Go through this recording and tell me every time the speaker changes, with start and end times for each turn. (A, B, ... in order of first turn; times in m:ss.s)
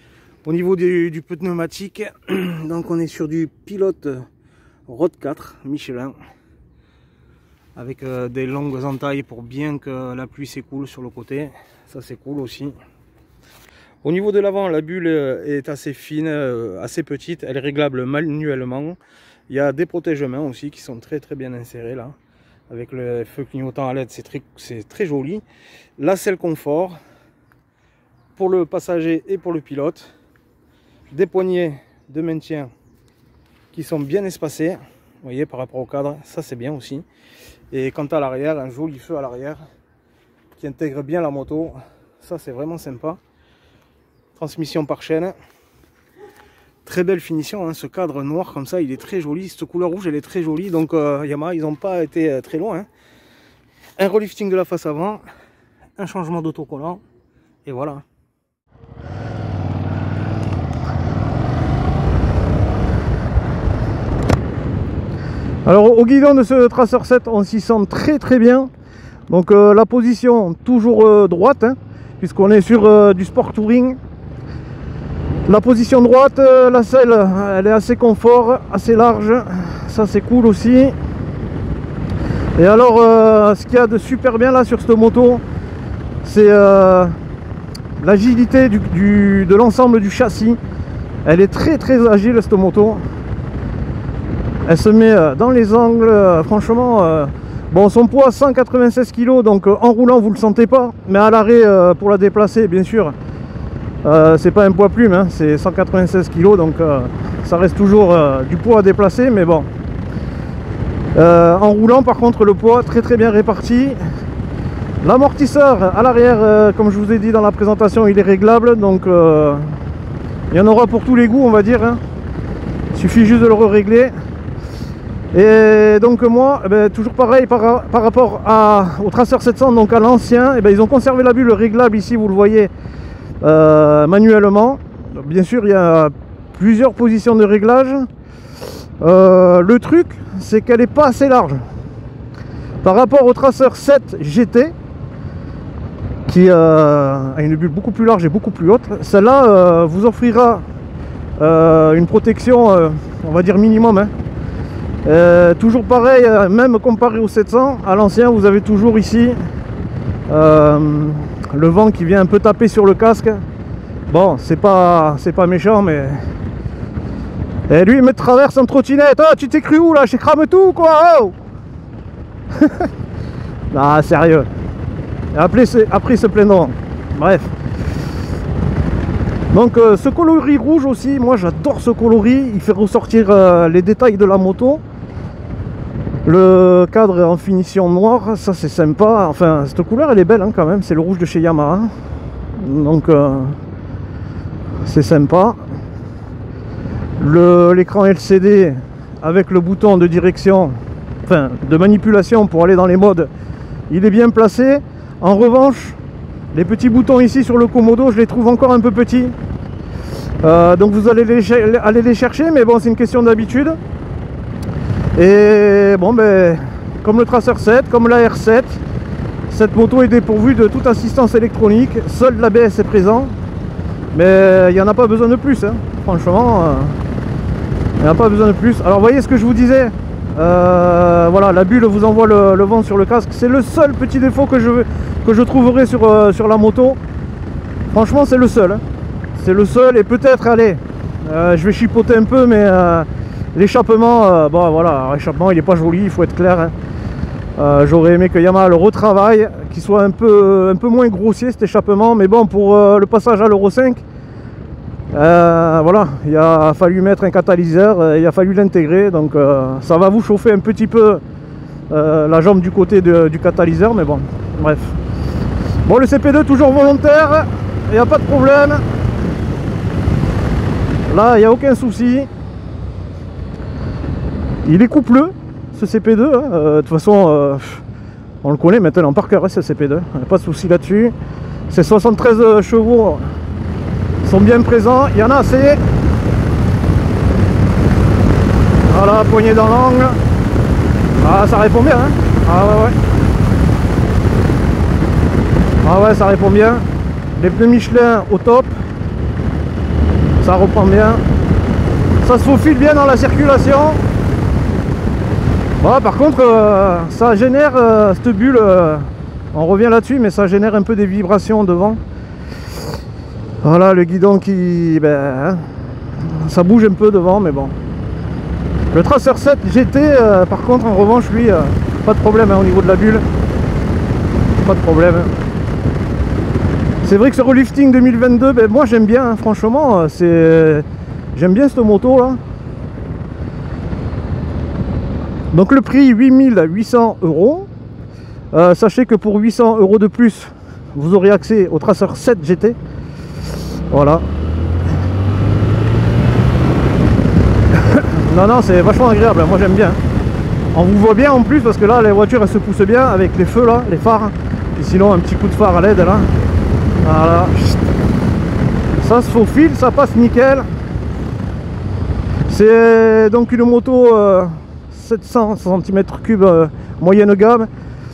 0:00.4-0:04.3 A
0:04.9-0:06.2 A
0:07.8-0:12.8 A
0:14.0-0:19.0 A
0:19.5-0:22.2 A
0:22.7-0:25.4 A
0:26.0-0:27.0 A
0:28.4-0:30.1 A
0:31.1-0:32.7 A
0:33.7-0:37.0 A
0:37.7-0:39.6 A
0:40.6-0:43.2 A
0:44.4-0:45.4 A
0:46.8-0:52.9 A
0:54.0-0:55.2 A
0:56.0-0:57.0 A
0:57.6-0:58.0 A
1:05.6-1:08.7 A
1:09.3-1:14.0 A
1:15.5-1:21.0 A
1:22.6-1:25.4 A
1:26.2-1:27.1 A
1:28.0-1:30.6 A
1:31.2-1:33.0 A
1:34.6-1:43.2 A
1:44.0-1:49.7 A
1:51.2-1:54.0 A
1:55.0-1:59.8 A
2:00.5-2:02.0 A
2:02.9-2:04.1 A
2:05.3-2:12.7 A
2:13.4-2:18.1 A
2:19.0-2:21.6 A
2:22.8-2:24.7 A
2:26.3-2:30.6 A
2:31.4-2:34.1 A
2:35.0-2:39.4 A
2:40.3-2:43.4 A
2:44.1-2:46.2 A
2:47.7-2:51.4 A
2:52.6-2:52.9 A
2:53.7-2:54.5 A
2:55.3-2:57.5 A
2:59.5-3:04.8 A
3:06.2-3:11.9 A
3:12.5-3:13.6 A
3:14.8-3:15.6 A
3:17.2-3:23.3 A
3:23.9-3:26.0 A
3:26.5-3:29.4 A
3:30.4-3:33.8 A
3:35.2-3:38.8 A
3:39.5-3:43.3 A
3:44.1-3:47.0 A
3:48.0-3:57.0 A
3:57.9-3:58.8 A
3:59.4-4:06.7 A
4:07.6-4:14.0 A
4:15.1-4:21.2 A
4:21.9-4:25.0 A
4:25.8-4:28.8 A
4:31.1-4:32.3 A
4:34.6-4:37.8 A
4:38.4-4:41.1 A
4:41.7-4:43.3 A
4:44.2-4:45.8 A
4:48.9-4:50.2 A
4:51.2-4:53.0 A
4:55.8-4:56.8 A
4:57.4-4:58.7 A
5:00.4-5:01.2 A
5:02.2-5:04.0 A
5:05.8-5:12.0 A
5:13.6-5:15.6 A
5:16.2-5:17.8 A
5:18.9-5:23.2 A
5:24.6-5:25.3 A
5:27.0-5:32.4 A
5:35.5-5:37.7 A
5:38.5-5:42.8 A
5:43.9-5:44.2 A
5:47.8-5:50.0 A
5:50.7-5:56.3 A
5:57.0-5:57.8 A
5:59.0-6:00.7 A
6:02.5-6:07.7 A